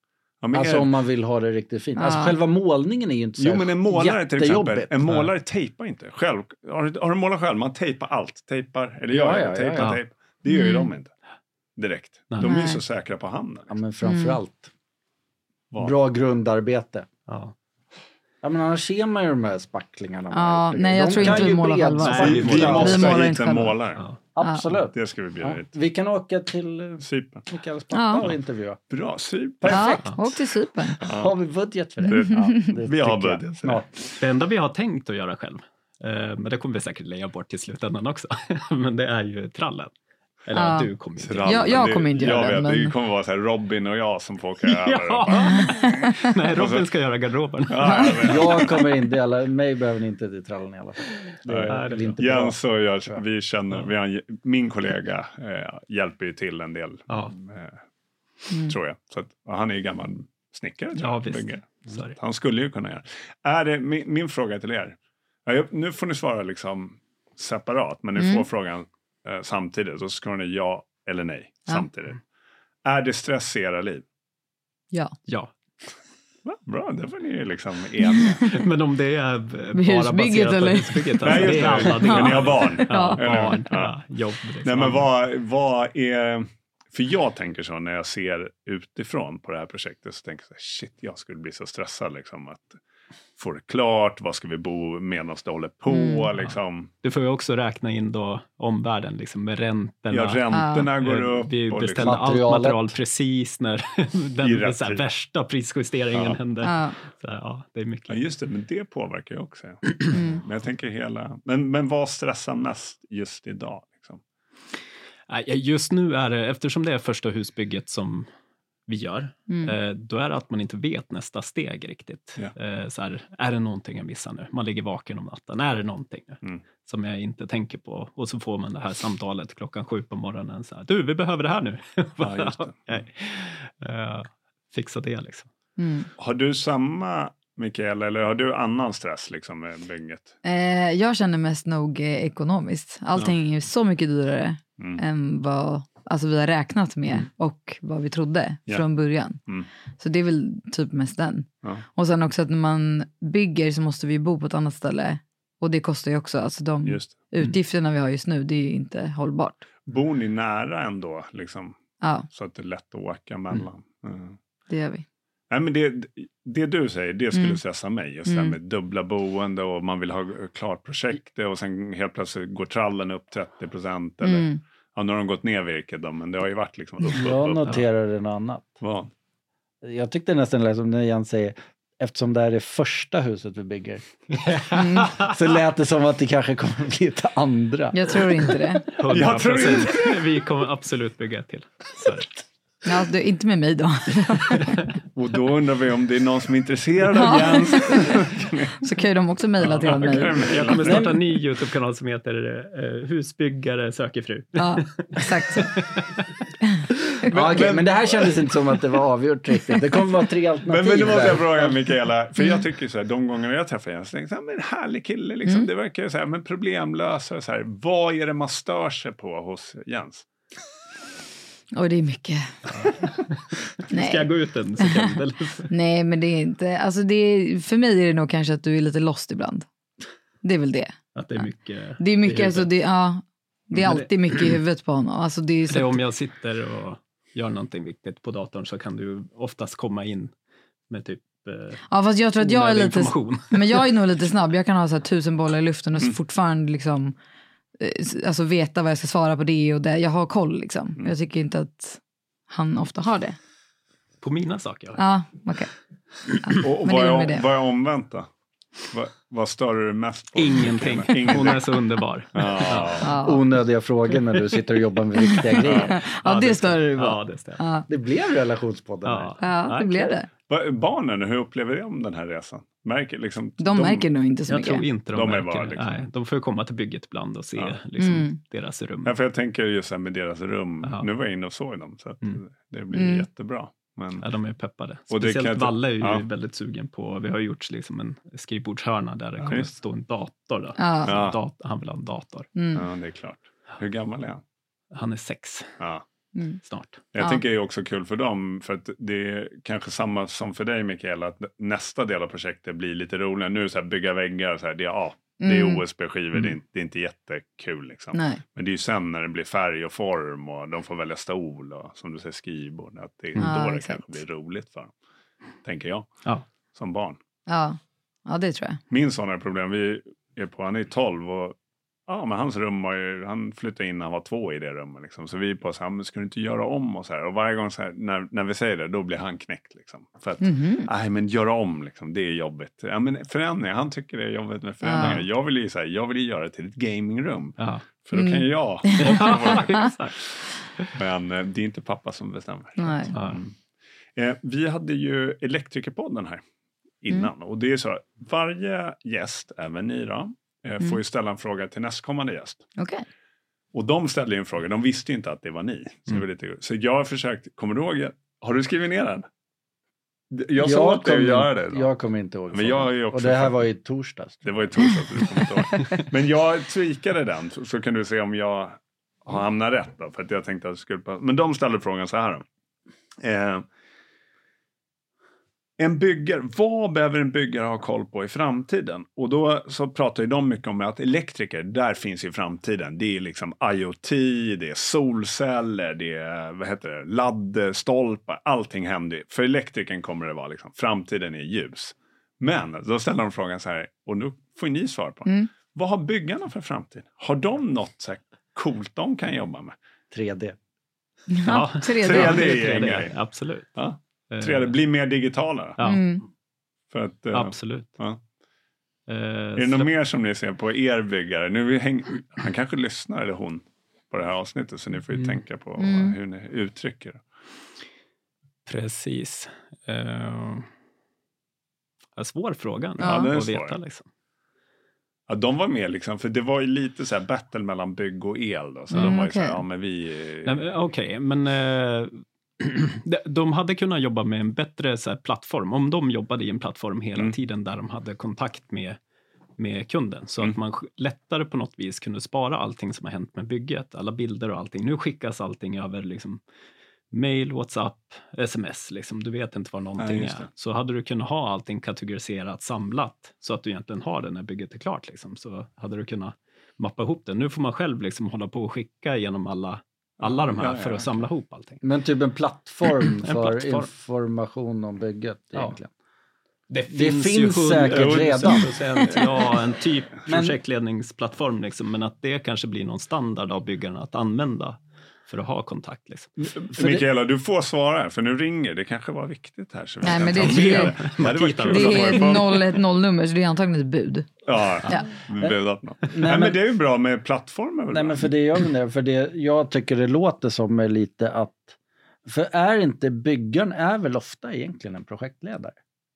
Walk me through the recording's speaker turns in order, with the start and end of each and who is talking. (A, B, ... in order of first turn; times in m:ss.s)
0:00.4-0:00.9 A
0:00.5-0:04.9 B
0:02.0-0:02.4 C
0:03.4-0:11.1 A
0:09.1-0:10.0 B
0:10.5-0:10.9 C
0:11.8-0:13.8 A
0:12.3-0:12.6 D
0:12.4-0:12.8 C
0:13.7-0:14.7 B
0:14.0-0:14.4 C
0:15.8-0:17.1 B
0:17.3-0:17.5 D
0:18.4-0:23.2 B
0:20.3-0:23.8 C
0:21.2-0:23.2 D
0:22.2-0:24.0 A
0:24.4-0:28.8 B
0:24.9-0:25.7 A
0:27.0-0:27.4 A
0:27.9-0:28.3 C
0:28.9-0:30.0 A
0:29.6-0:30.2 B
0:29.7-0:31.0 C
0:31.0-0:31.3 A
0:31.0-0:34.0 B
0:32.0-0:32.7 C
0:32.1-0:33.8 A
0:34.2-0:39.9 D
0:40.4-0:41.7 D
0:40.5-0:40.9 C
0:41.2-0:45.9 A
0:41.4-0:42.9 C
0:44.6-0:48.4 D
0:45.5-0:46.3 C
0:46.5-0:46.8 A
0:47.7-0:48.6 A
0:47.8-0:48.4 C
0:48.2-0:53.2 B
0:51.5-0:57.8 A
0:51.7-0:52.2 D
0:57.1-0:57.3 D
0:58.5-0:58.7 C
0:58.6-1:12.2 A
1:01.0-1:02.2 D
1:08.2-1:08.4 C
1:12.8-1:14.0 A
1:16.4-1:18.5 A
1:18.2-1:18.5 C
1:18.5-1:25.1 D
1:19.7-1:23.6 C
1:21.2-1:23.9 A
1:24.6-1:32.8 A
1:33.4-1:36.9 A
1:35.9-1:36.3 C
1:36.4-1:48.2 D
1:40.1-1:42.2 A
1:40.5-1:40.9 C
1:42.0-1:43.0 B
1:44.4-1:45.0 A
1:46.1-1:46.4 A
1:46.6-1:47.0 C
1:48.1-1:54.2 A
1:50.1-1:50.4 C
1:55.3-1:58.3 D
1:58.9-2:15.5 D
1:59.5-1:59.8 C
2:12.2-2:12.8 A
2:15.8-2:16.1 C
2:16.2-2:20.3 A
2:20.4-2:29.4 C
2:30.0-2:39.6 C
2:36.8-2:37.2 A
2:39.9-2:41.8 A
2:42.0-2:42.3 C
2:42.3-2:44.4 A
2:44.7-2:45.0 C
2:45.5-2:57.8 A
2:47.3-2:47.6 C
2:48.2-2:48.5 C
2:54.2-2:54.6 C
2:57.1-2:58.8 B
2:58.8-2:59.1 A
2:59.8-3:04.0 B
3:04.4-3:05.3 D
3:04.7-3:05.1 C
3:05.0-3:08.3 B
3:07.9-3:09.0 C
3:08.9-3:12.3 D
3:09.1-3:10.2 A
3:12.8-3:14.8 C
3:15.1-3:18.8 A
3:17.1-3:18.2 C
3:18.8-3:20.5 C
3:19.6-3:21.1 A
3:19.8-3:26.2 D
3:20.8-3:21.2 B
3:24.6-3:25.7 C
3:27.2-3:27.7 D
3:27.3-3:31.8 B
3:27.3-3:28.2 A
3:30.6-3:40.2 A
3:41.7-3:42.5 C
3:42.7-3:45.7 D
3:43.9-3:49.6 C
3:50.4-3:51.4 C
3:51.1-3:52.7 D
3:52.0-3:56.0 C
3:53.7-3:54.6 D
3:55.7-4:00.3 D
4:00.9-4:01.8 D
4:01.9-4:07.1 C
4:02.4-4:03.9 D
4:07.8-4:13.4 C
4:14.2-4:15.0 D
4:15.0-4:15.7 C
4:16.4-4:17.4 C
4:16.6-4:18.3 A
4:18.9-4:21.8 A
4:20.4-4:23.1 D
4:22.3-4:23.2 A
4:23.0-4:23.4 C
4:23.2-4:25.9 B
4:25.3-4:27.9 C
4:25.6-4:26.0 A
4:26.0-4:27.6 D
4:27.9-4:29.4 B
4:29.0-4:30.1 D
4:29.4-4:30.3 C
4:30.5-4:34.0 A
4:33.6-4:34.9 C
4:34.5-4:39.1 D
4:35.1-4:36.0 A
4:38.0-4:38.4 C
4:39.0-4:44.2 A
4:42.9-4:43.2 C
4:44.2-4:52.5 D
4:45.1-4:46.2 A
4:49.4-4:49.7 A
4:50.8-4:51.2 C
4:51.0-4:51.4 A
4:52.5-4:52.8 C
4:52.7-4:54.4 A
4:54.9-4:55.7 D
4:56.3-4:56.6 C
4:56.6-4:57.0 D
4:57.1-5:14.9 A
5:05.4-5:05.8 C
5:08.1-5:08.4 C
5:13.4-5:14.2 C
5:15.6-5:16.2 A
5:16.7-5:17.2 A
5:17.5-5:18.8 C
5:18.9-5:21.6 A
5:22.1-5:39.9 A
5:30.4-5:30.9 C
5:34.8-5:35.2 C
5:34.9-5:35.2 D
5:37.6-5:37.8 D
5:38.1-5:39.8 C
5:39.0-5:40.2 D
5:40.9-5:43.5 A
5:42.8-5:43.1 C
5:43.1-5:43.4 D
5:44.2-5:46.4 A
5:47.0-5:52.6 A
5:52.8-5:53.0 C
5:53.7-5:59.3 A
6:00.3-6:01.9 A
6:00.6-6:04.5 B
6:02.5-6:03.6 A
6:04.4-6:12.4 A
6:13.2-6:13.6 A
6:15.8-6:39.7 A
6:40.1-6:40.6 B
6:41.3-6:42.6 C
6:41.4-6:43.7 D
6:42.0-6:43.1 A
6:43.7-6:45.8 A
6:44.3-6:44.7 D
6:45.8-6:46.0 D
6:45.8-6:46.2 C
6:46.9-6:48.2 A
6:47.3-6:48.0 D
6:49.1-6:49.9 D
6:49.6-6:57.2 A
6:55.8-6:56.2 C
6:58.6-7:00.7 D
7:02.2-7:04.0 D
7:03.0-7:03.3 C
7:03.0-7:03.8 A
7:05.3-7:10.6 A
7:08.9-7:09.6 C
7:10.4-7:19.0 D
7:19.6-7:26.4 D
7:27.1-7:41.8 D
7:30.0-7:30.5 A
7:40.2-7:41.2 A
7:41.8-7:45.9 B
7:43.0-7:43.9 D
7:46.7-7:56.3 D
7:46.9-7:48.7 B
7:47.9-7:48.7 A
7:50.3-7:50.6 B
7:56.4-8:02.8 A
7:56.7-7:57.0 B
8:00.0-8:01.1 C
8:00.2-8:02.6 D
8:01.6-8:04.3 C
8:04.4-8:08.3 A
8:06.1-8:06.6 B
8:07.9-8:11.7 B
8:12.2-8:15.8 B